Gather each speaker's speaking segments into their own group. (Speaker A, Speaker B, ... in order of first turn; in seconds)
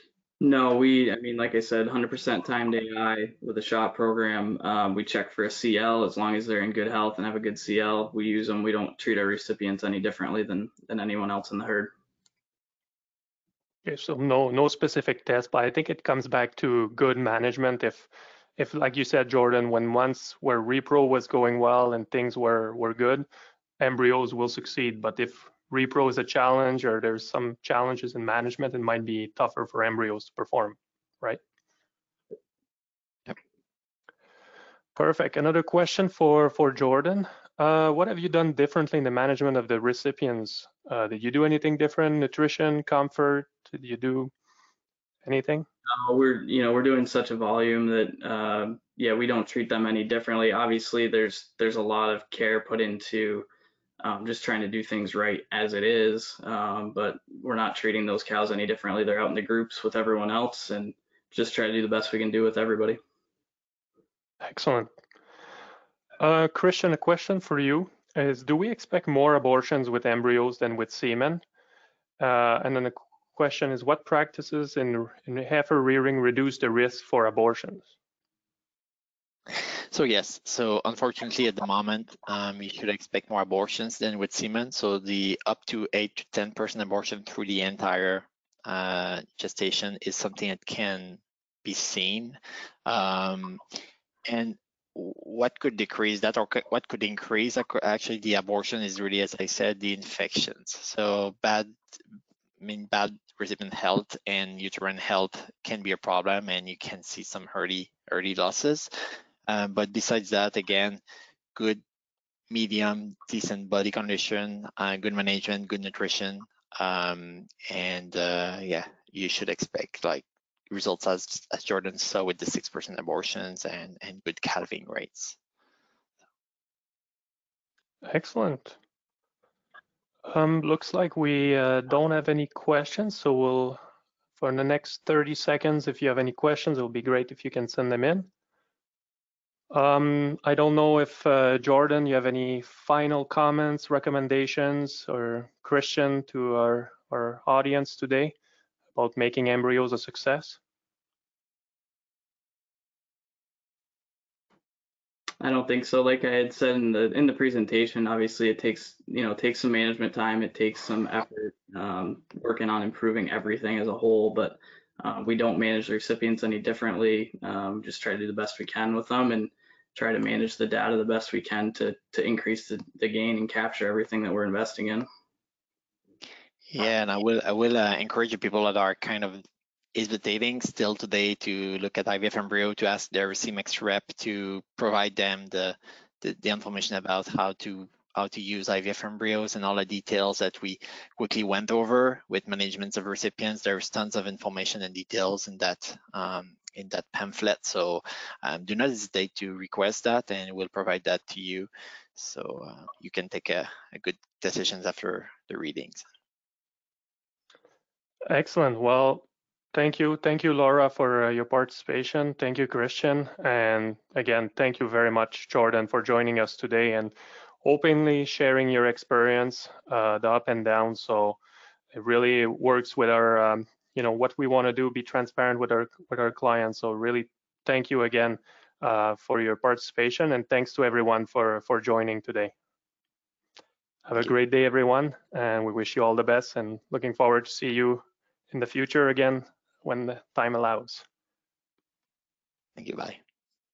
Speaker A: 0.4-11.9, 45.9-53.5, 54.0-63.0, 155.4-175.1
Speaker B: 13.8-23.2, 23.8-31.4, 34.9-44.3, 45.2-45.6, 64.4-64.9, 66.2-71.4, 72.2-77.8, 128.0-128.8, 130.2-133.8, 134.4-138.3, 139.7-148.3, 148.9-150.6, 208.3-221.4, 221.9-232.5, 234.1-241.0
Speaker C: 79.9-93.6, 94.2-101.8, 102.6-108.9, 109.5-111.0, 111.5-111.8, 112.5-125.3, 176.7-179.4, 179.9-206.0, 242.8-243.2